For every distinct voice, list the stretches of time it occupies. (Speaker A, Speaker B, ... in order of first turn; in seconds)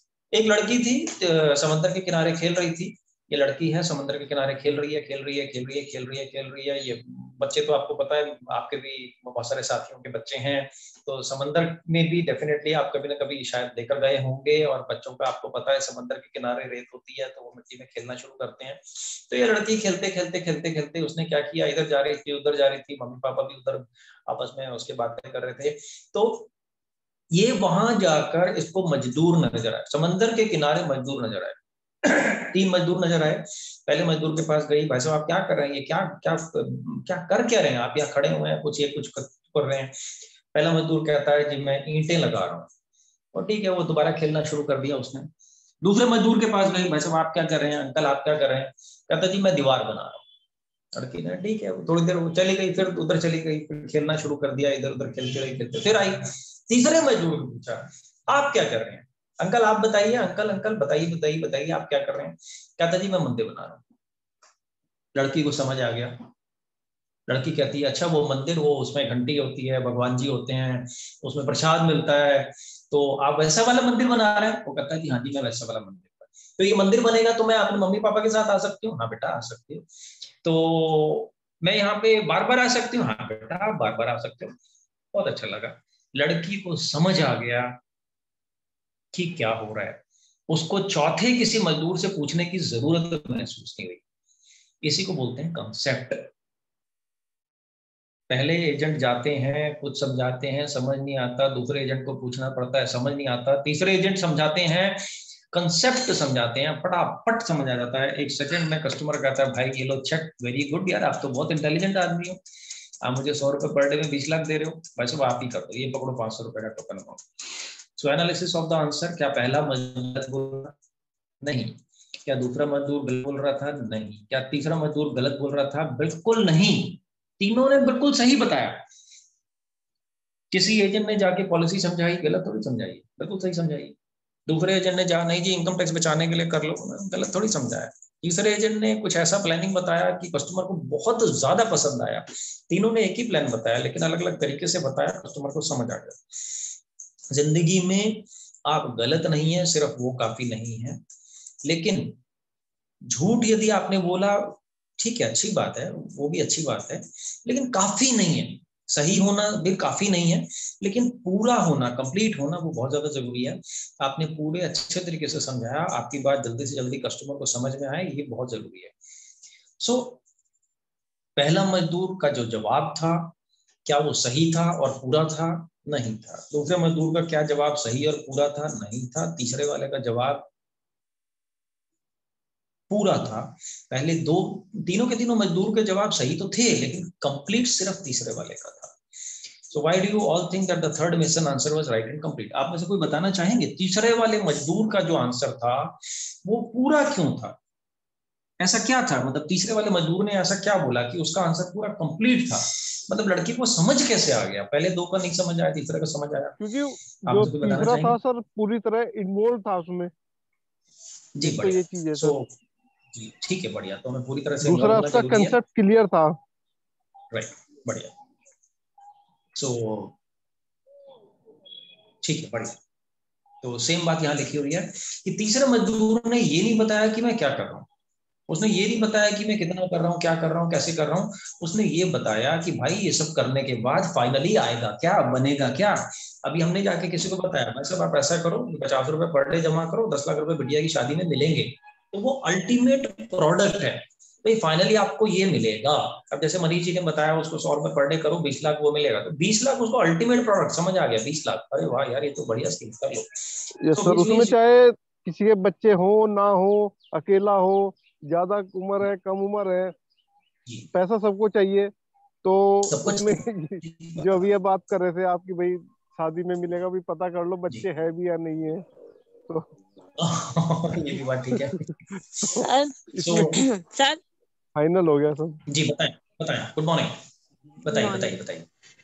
Speaker A: 0.3-26.5, 27.3-42.7, 43.3-45.3, 45.8-50.2, 50.9-63.8, 65.1-66.3, 67.3-79.9, 80.4-84.5, 85.1-87.8, 89.1-94.0, 94.8-96.3, 98.3-112.4, 113.0-120.7, 121.4-128.8, 130.5-133.9, 134.5-146.5, 147.3-151.0, 151.6-152.2, 153.1-168.9, 169.8-170.2, 171.4-173.3, 173.8-180.5, 182.9-189.0, 189.7-197.6, 198.6-206.6, 207.2-208.2, 211.3-212.5, 213.1-215.6, 217.3-218.1, 219.5-220.1, 222.2-222.8, 223.6-227.9, 228.5-254.5, 262.9-264.4, 270.2-271.8, 273.2-273.6, 275.7-277.2, 277.8-278.7
Speaker B: 206.6-210.1, 211.4-212.4, 214.6-216.4, 253.8-259.9, 260.9-261.9, 262.4-268.8, 272.1-273.6, 274.8-275.6
Speaker C: 272.6-274.2, 277.9-278.4